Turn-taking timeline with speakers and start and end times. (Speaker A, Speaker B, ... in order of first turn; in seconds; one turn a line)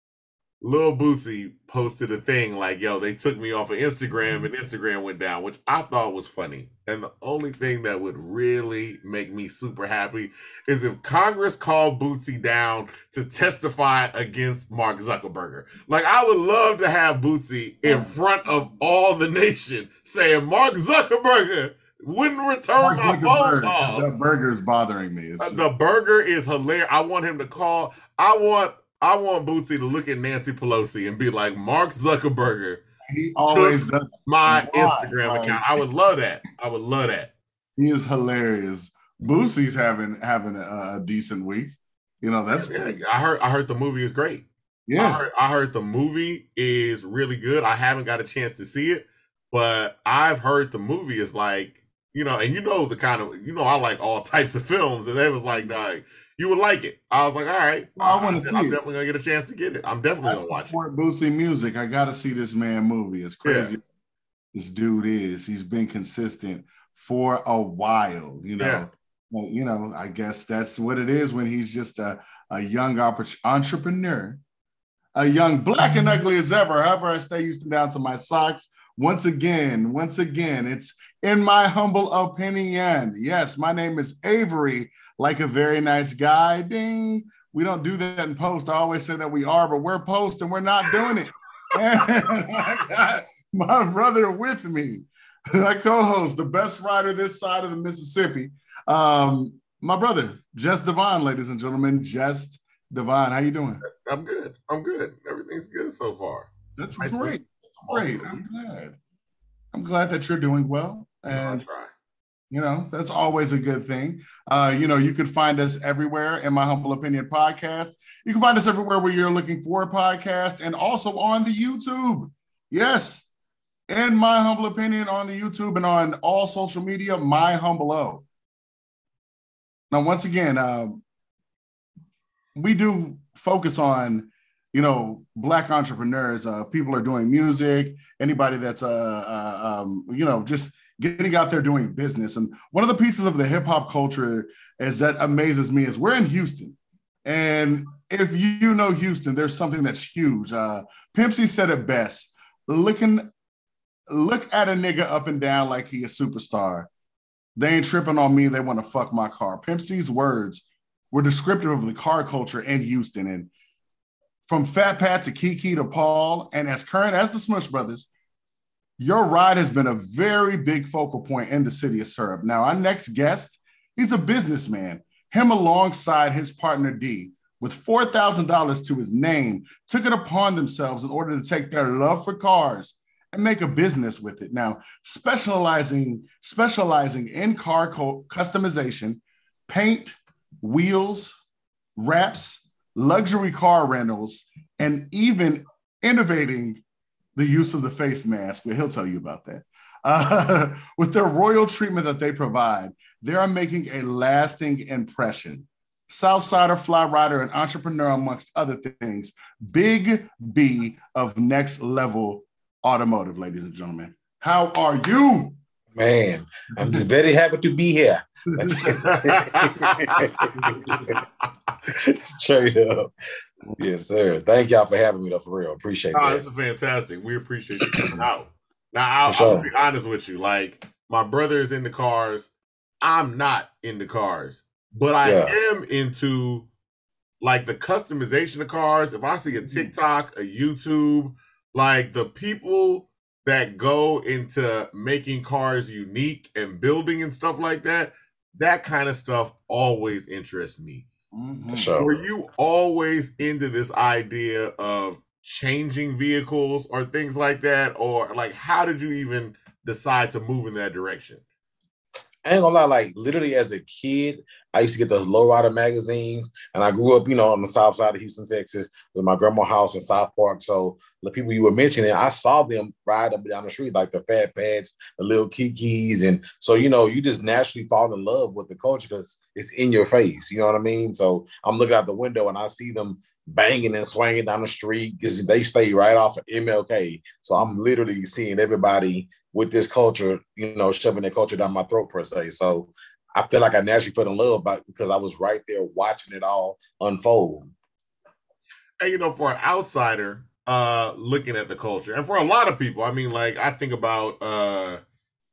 Speaker A: 0.6-24.1
Speaker B: 17.8-18.1
Speaker B: 22.8-25.6
Speaker A: 25.4-32.8
Speaker B: 33.1-35.6
Speaker A: 33.4-37.3
Speaker B: 37.8-43.0
Speaker A: 42.5-44.5
Speaker B: 44.9-45.2
Speaker A: 45.0-60.7
Speaker B: 58.0-58.8
Speaker B: 60.2-63.8
Speaker A: 63.4-63.7
Speaker B: 64.5-74.4
Speaker A: 68.6-68.9
Speaker B: 75.2-103.8
Speaker A: 103.9-108.4
Speaker B: 106.8-109.0
Speaker B: 109.7-111.6
Speaker A: 111.3-111.9
Speaker B: 112.5-123.3
Speaker B: 123.9-128.2
Speaker B: 129.9-131.0
Speaker B: 132.5-153.3
Speaker B: 154.1-156.9
Speaker B: 157.6-163.5
Speaker B: 164.4-168.1
Speaker B: 169.0-191.4
Speaker B: 191.9-196.8
Speaker B: 197.3-215.6
Speaker C: 215.9-221.2
Speaker B: 218.5-219.0
Speaker A: 219.0-221.0
Speaker B: 220.6-221.0
Speaker C: 221.9-223.1
Speaker C: 223.8-226.4
Speaker A: 226.1-232.5
Speaker C: 229.2-229.7
Speaker A: 233.0-236.7
Speaker C: 235.2-235.5
Speaker A: 237.4-251.1
Speaker B: 251.3-251.9
Speaker C: 251.7-252.2
Speaker A: 251.9-261.4
Speaker C: 262.4-297.7
Speaker A: 299.0-305.0